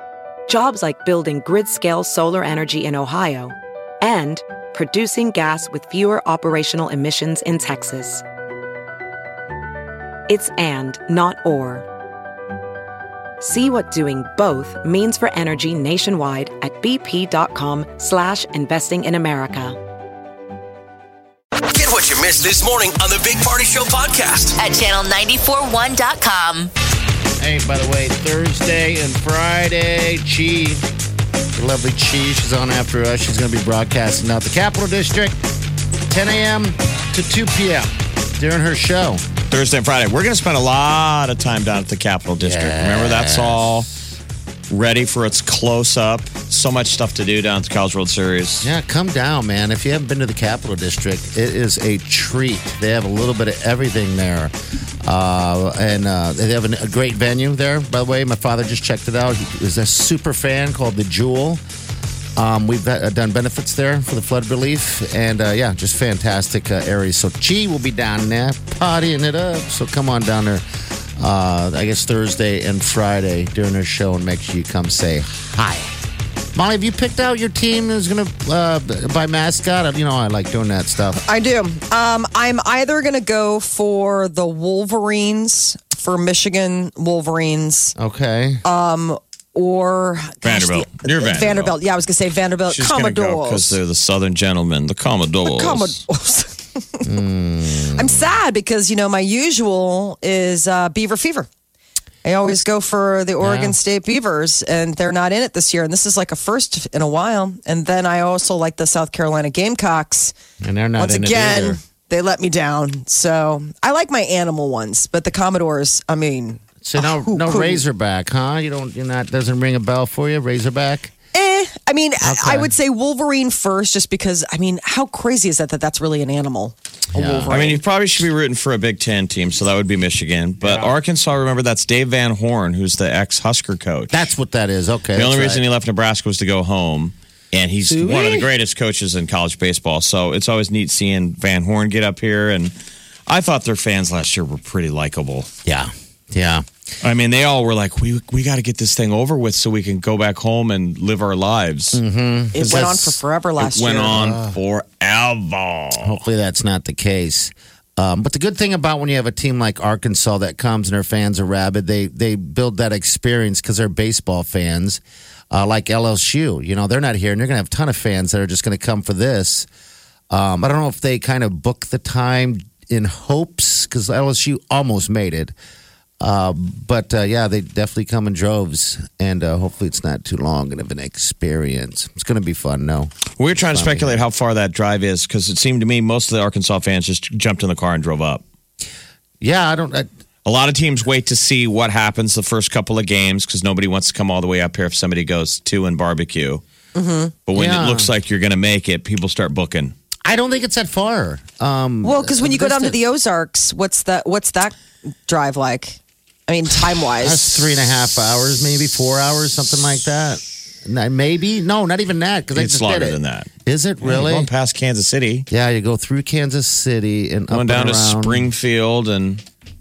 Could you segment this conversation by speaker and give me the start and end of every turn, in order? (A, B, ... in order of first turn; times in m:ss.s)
0:00.5-0:08.2 A
0:10.3-0:11.9 A
0:13.4-0:19.8 A
0:21.7-0:24.6 B
0:24.6-0:26.7 C
0:27.4-0:30.8 D
0:31.6-0:35.4 D
0:36.1-0:39.2 D
0:39.5-0:43.9 E
0:42.4-0:43.7 D
0:44.7-0:48.7 E
0:48.6-0:54.5 D
0:55.0-1:01.6 D
1:02.4-1:10.6 D
1:11.2-1:15.9 D
1:16.5-1:21.2 D
1:21.1-1:27.9 F
1:28.0-1:28.6 D
1:28.6-1:33.8 F
1:30.4-1:31.8 E
1:32.7-1:36.0 E
1:35.4-1:37.1 F
1:37.0-1:38.3 D
1:37.9-1:41.5 F
1:42.2-1:50.3 F
1:43.4-1:43.8 D
1:50.6-1:51.8 D
1:51.0-1:57.8 F
1:56.8-2:01.1 D
2:01.3-2:07.8 F
2:02.2-2:02.7 D
2:07.1-2:07.6 D
2:07.5-2:14.2 E
2:10.6-2:11.0 D
2:14.1-2:15.6 D
2:15.1-2:22.7 E
2:17.8-2:18.5 D
2:23.3-2:25.5 E
2:25.6-2:26.6 D
2:27.0-2:32.0 E
2:31.9-2:33.0 D
2:32.5-2:34.2 F
2:32.6-2:36.2 E
2:34.1-2:34.6 D
2:36.0-2:49.7 D
2:50.3-2:55.5 D
2:56.2-3:04.2 D
3:03.4-3:08.4 E
3:09.4-3:10.1 D
3:10.4-3:16.6 E
3:16.9-3:17.3 F
3:17.5-3:19.9 E
3:17.5-3:18.1 D
3:20.2-3:23.0 D
3:22.0-3:27.6 F
3:27.2-3:34.5 D
3:32.5-3:33.5 E
3:34.0-3:35.5 E
3:35.5-3:38.5 D
3:37.5-3:39.4 E